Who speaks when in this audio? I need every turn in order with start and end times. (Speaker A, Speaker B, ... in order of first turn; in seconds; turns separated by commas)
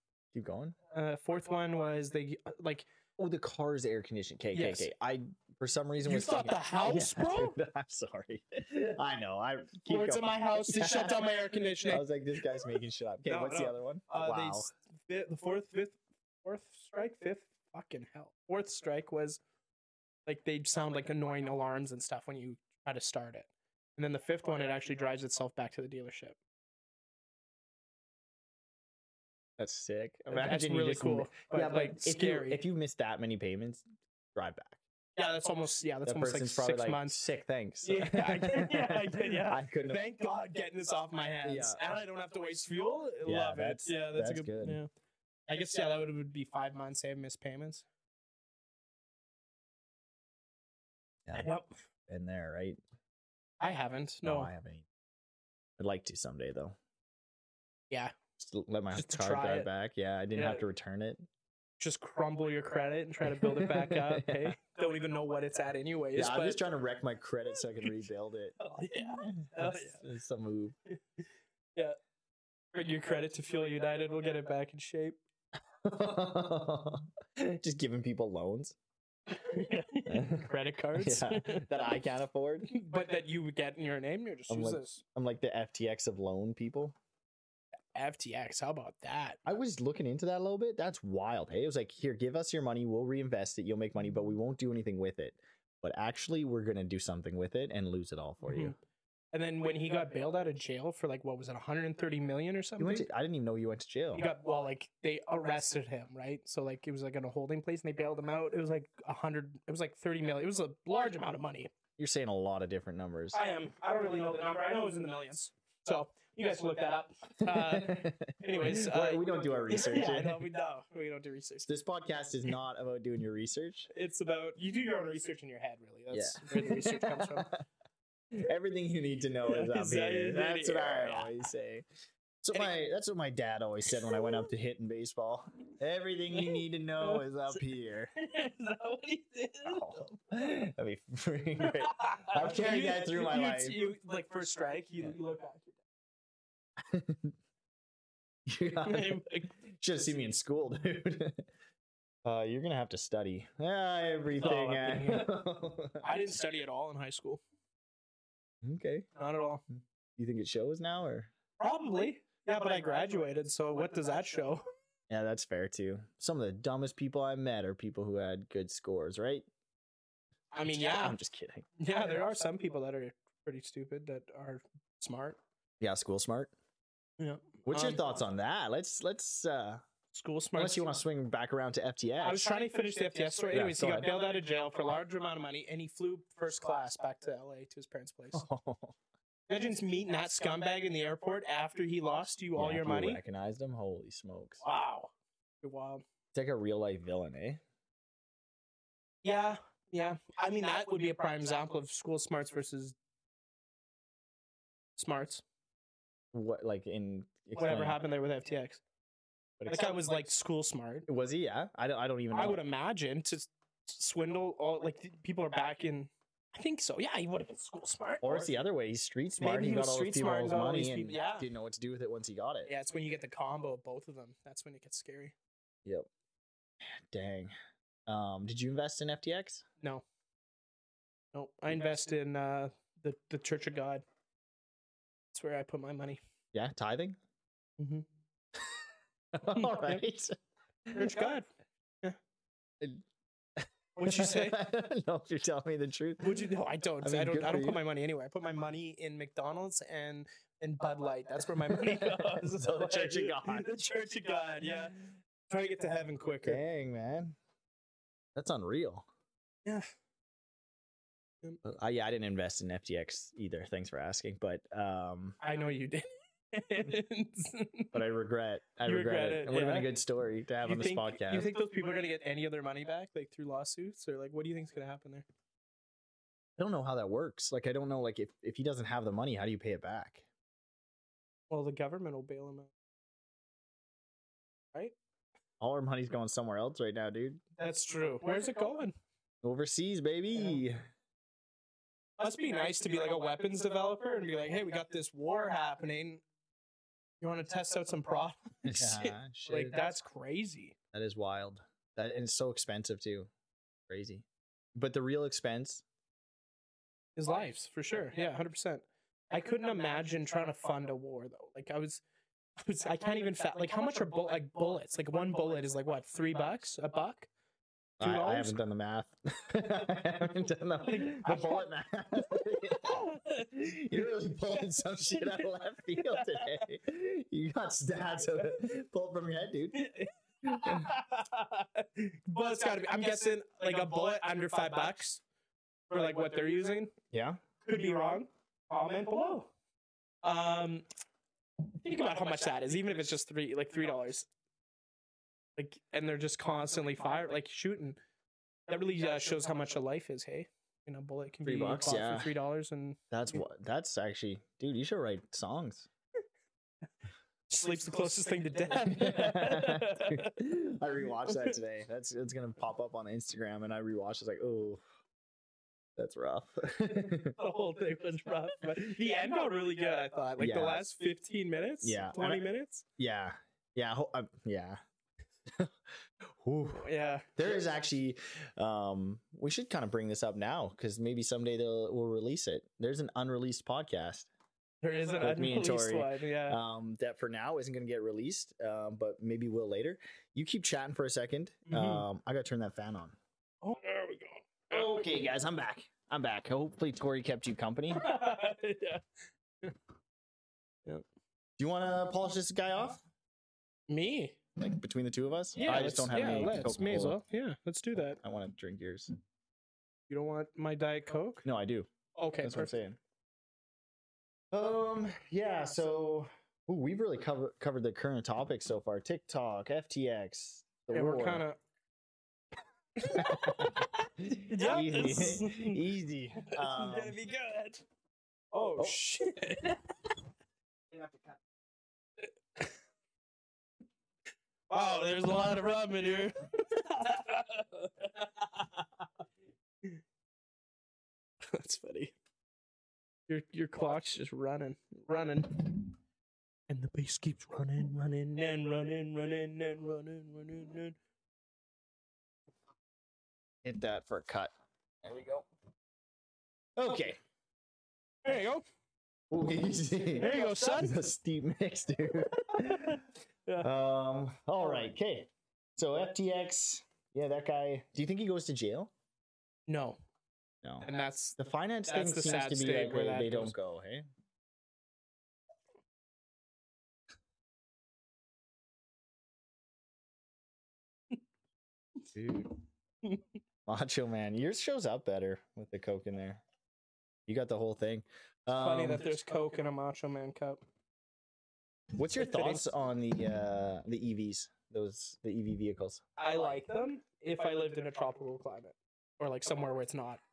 Speaker A: 0.3-0.8, Speaker B: 0.9-2.9, Speaker A: 3.2-11.3, Speaker B: 4.5-4.9, Speaker B: 6.0-7.6, Speaker B: 9.9-12.0, Speaker A: 11.9-14.7, Speaker B: 13.3-19.4, Speaker B: 20.3-26.4, Speaker A: 29.6-33.8, Speaker B: 30.3-32.6, Speaker A: 34.4-34.8, Speaker B: 35.2-37.2, Speaker A: 36.0-40.0, Speaker B: 37.8-44.9, Speaker A: 41.4-41.8, Speaker A: 43.2-44.8, Speaker B: 45.5-47.9, Speaker B: 51.3-51.7, Speaker A: 52.1-52.8, Speaker B: 53.6-54.5, Speaker A: 54.2-54.9, Speaker A: 55.8-56.8, Speaker A: 58.4-61.2, Speaker B: 58.9-59.7, Speaker B: 60.3-60.6, Speaker B: 61.8-66.7, Speaker A: 63.3-64.5, Speaker A: 66.2-70.8, Speaker B: 68.6-70.0, Speaker B: 72.7-75.2, Speaker A: 75.8-78.8, Speaker B: 79.3-81.7, Speaker A: 80.1-82.7, Speaker B: 82.7-85.0, Speaker A: 84.5-87.0, Speaker B: 87.9-89.4, Speaker A: 89.5-98.8, Speaker B: 98.4-98.8, Speaker B: 99.3-103.1, Speaker A: 102.8-104.3, Speaker B: 104.1-111.7, Speaker A: 112.0-113.4, Speaker B: 113.3-121.7, Speaker A: 117.4-120.5, Speaker A: 121.7-123.9, Speaker B: 123.9-127.5, Speaker A: 126.1-127.6, Speaker A: 128.3-131.8, Speaker B: 129.5-131.4, Speaker A: 132.4-138.1, Speaker B: 134.0-134.4, Speaker B: 136.3-137.6, Speaker B: 138.2-140.1, Speaker A: 139.7-143.8, Speaker B: 141.6-145.7, Speaker A: 146.8-147.3, Speaker A: 148.5-151.5, Speaker B: 148.8-149.5, Speaker A: 152.2-156.1, Speaker B: 154.4-155.3, Speaker B: 156.0-157.4, Speaker A: 158.6-159.1, Speaker B: 159.2-159.6, Speaker A: 160.2-161.3, Speaker B: 161.6-164.6, Speaker A: 165.1-169.4, Speaker B: 170.5-171.2, Speaker A: 170.8-171.7, Speaker B: 171.8-175.4, Speaker A: 175.8-176.5, Speaker B: 177.2-178.0, Speaker A: 177.7-179.8, Speaker B: 180.1-180.9, Speaker A: 180.6-182.4, Speaker B: 182.2-188.4, Speaker A: 183.5-184.1, Speaker A: 188.3-188.9, Speaker B: 189.5-193.2, Speaker A: 192.6-194.6, Speaker B: 194.6-195.1, Speaker B: 195.6-196.0, Speaker A: 196.3-197.6, Speaker B: 199.2-203.0, Speaker B: 205.0-205.4, Speaker A: 206.3-208.0, Speaker B: 207.6-208.8, Speaker A: 209.6-209.9, Speaker B: 209.7-211.1, Speaker A: 211.1-212.6, Speaker B: 212.3-218.6, Speaker A: 218.2-222.7, Speaker B: 219.4-221.5, Speaker B: 222.7-225.3, Speaker A: 226.8-227.5, Speaker A: 228.1-229.6, Speaker B: 231.3-234.0, Speaker B: 235.3-236.2, Speaker A: 236.5-237.2, Speaker B: 237.8-238.1, Speaker A: 239.3-240.3, Speaker B: 239.5-240.0, Speaker A: 240.9-241.2, Speaker B: 240.9-241.5, Speaker A: 243.6-246.5, Speaker B: 244.0-244.6, Speaker B: 246.2-256.6, Speaker A: 247.0-247.8, Speaker A: 251.7-253.7, Speaker A: 256.4-257.4, Speaker A: 258.4-259.1, Speaker A: 261.6-265.4, Speaker B: 265.4-267.9, Speaker A: 267.9-271.5, Speaker B: 268.9-269.9, Speaker B: 270.6-275.2, Speaker A: 276.6-280.2, Speaker B: 281.5-282.7, Speaker A: 285.6-287.4, Speaker B: 287.6-288.9, Speaker A: 289.4-290.8, Speaker B: 292.2-296.2, Speaker B: 297.2-300.8, Speaker A: 298.6-299.8, Speaker A: 300.9-303.3, Speaker A: 303.9-305.8, Speaker B: 307.2-312.0, Speaker B: 312.6-317.3, Speaker A: 318.0-329.9, Speaker B: 318.0-318.6, Speaker B: 320.8-321.6, Speaker B: 322.7-323.5, Speaker B: 326.0-326.5, Speaker B: 329.7-335.2, Speaker A: 330.4-330.9, Speaker B: 335.9-336.9, Speaker A: 337.1-337.4, Speaker B: 337.6-339.5, Speaker B: 340.2-340.9, Speaker B: 341.8-344.3, Speaker B: 345.6-348.0, Speaker B: 348.7-353.4, Speaker A: 351.4-352.3, Speaker A: 353.1-355.9, Speaker B: 357.5-360.4, Speaker A: 358.9-364.8, Speaker B: 361.3-361.5, Speaker A: 366.0-367.4, Speaker B: 367.4-372.8, Speaker A: 370.4-370.9, Speaker A: 371.8-372.4, Speaker A: 373.0-374.8, Speaker A: 375.5-384.3, Speaker B: 376.8-377.3, Speaker B: 384.8-386.6, Speaker A: 385.2-393.2, Speaker B: 391.7-392.1, Speaker B: 393.6-395.0, Speaker A: 394.7-398.1, Speaker B: 397.9-399.0, Speaker A: 401.6-403.0, Speaker B: 403.9-404.4, Speaker A: 404.6-407.2, Speaker B: 405.6-408.2, Speaker A: 408.2-409.1, Speaker B: 410.1-411.5, Speaker A: 411.4-411.9, Speaker B: 412.1-412.8, Speaker A: 412.4-413.0, Speaker A: 414.5-421.4, Speaker B: 420.9-421.6, Speaker B: 423.0-425.8, Speaker A: 423.1-427.2, Speaker B: 426.4-427.8, Speaker B: 428.5-429.9, Speaker B: 434.7-438.9, Speaker B: 441.4-442.1, Speaker B: 443.3-446.0, Speaker B: 446.7-451.0, Speaker A: 453.6-454.5, Speaker A: 455.0-455.5, Speaker A: 456.8-457.2, Speaker B: 458.2-458.6, Speaker A: 459.3-463.0, Speaker B: 460.2-461.1, Speaker B: 462.3-463.7, Speaker A: 463.6-468.9, Speaker B: 469.7-470.0, Speaker B: 470.8-473.5, Speaker A: 471.4-474.1, Speaker A: 482.1-482.6, Speaker A: 483.7-486.4, Speaker A: 487.3-489.1, Speaker B: 488.6-490.6, Speaker A: 491.9-496.0, Speaker B: 492.2-492.7, Speaker B: 496.2-500.2